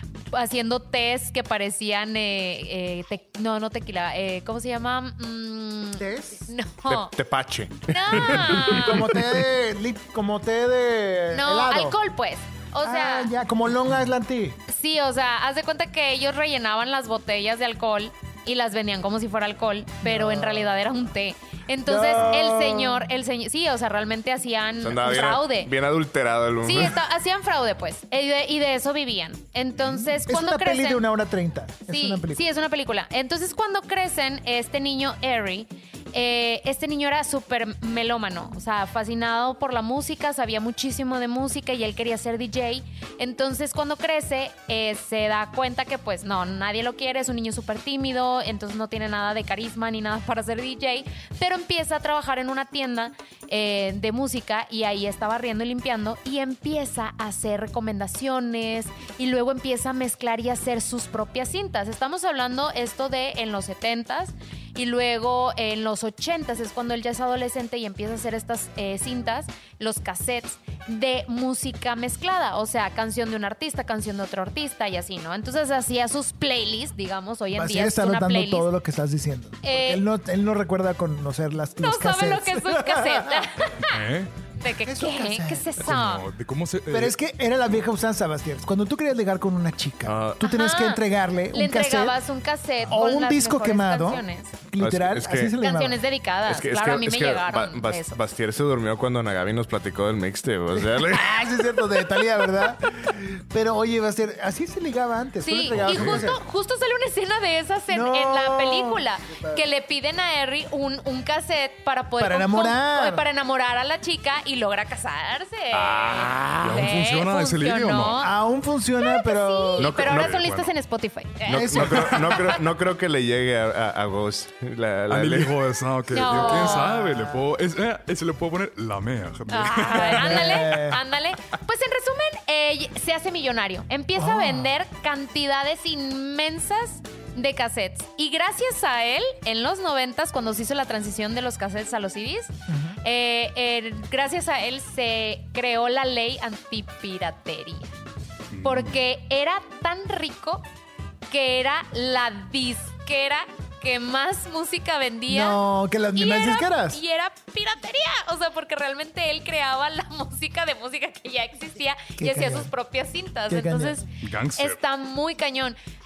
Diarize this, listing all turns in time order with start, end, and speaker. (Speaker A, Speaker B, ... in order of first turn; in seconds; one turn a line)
Speaker A: 0.3-7.2
Speaker B: 6.0-6.5
Speaker C: 6.9-8.9
Speaker A: 7.9-9.1
Speaker B: 8.1-11.9
Speaker A: 11.3-13.3
Speaker B: 12.8-14.6
Speaker A: 14.7-25.7
Speaker B: 20.0-20.9
Speaker B: 21.9-23.1
Speaker C: 24.8-27.0
Speaker A: 26.6-31.0
Speaker B: 30.1-32.4
Speaker A: 31.9-78.7
Speaker B: 77.5-83.6
Speaker A: 79.6-80.0
Speaker A: 81.8-84.0
Speaker D: 83.8-84.3
Speaker A: 84.6-86.2
Speaker B: 84.7-85.9
Speaker D: 85.8-87.2
Speaker B: 86.9-92.2
Speaker C: 90.0-90.4
Speaker A: 90.4-94.5
Speaker B: 92.8-96.0
Speaker C: 94.8-95.6
Speaker A: 95.5-98.2
Speaker C: 96.5-101.4
Speaker B: 100.7-106.4
Speaker A: 105.4-118.3
Speaker D: 105.7-106.2
Speaker B: 107.9-109.6
Speaker B: 112.2-113.2
Speaker C: 115.7-116.9
Speaker D: 116.6-118.2
Speaker B: 118.2-120.1
Speaker A: 119.0-122.6
Speaker C: 119.8-120.7
Speaker C: 121.5-125.5
Speaker B: 121.5-122.4
Speaker D: 125.1-130.8
Speaker A: 126.1-127.0
Speaker B: 126.4-127.4
Speaker A: 129.5-147.9
Speaker B: 129.9-131.0
Speaker B: 134.2-134.7
Speaker B: 142.7-143.0
Speaker D: 148.5-148.9
Speaker A: 148.6-150.6
Speaker A: 151.3-155.6
Speaker B: 155.3-157.0
Speaker A: 156.1-165.8
Speaker B: 162.2-162.7
Speaker B: 163.5-164.0
Speaker D: 164.2-164.8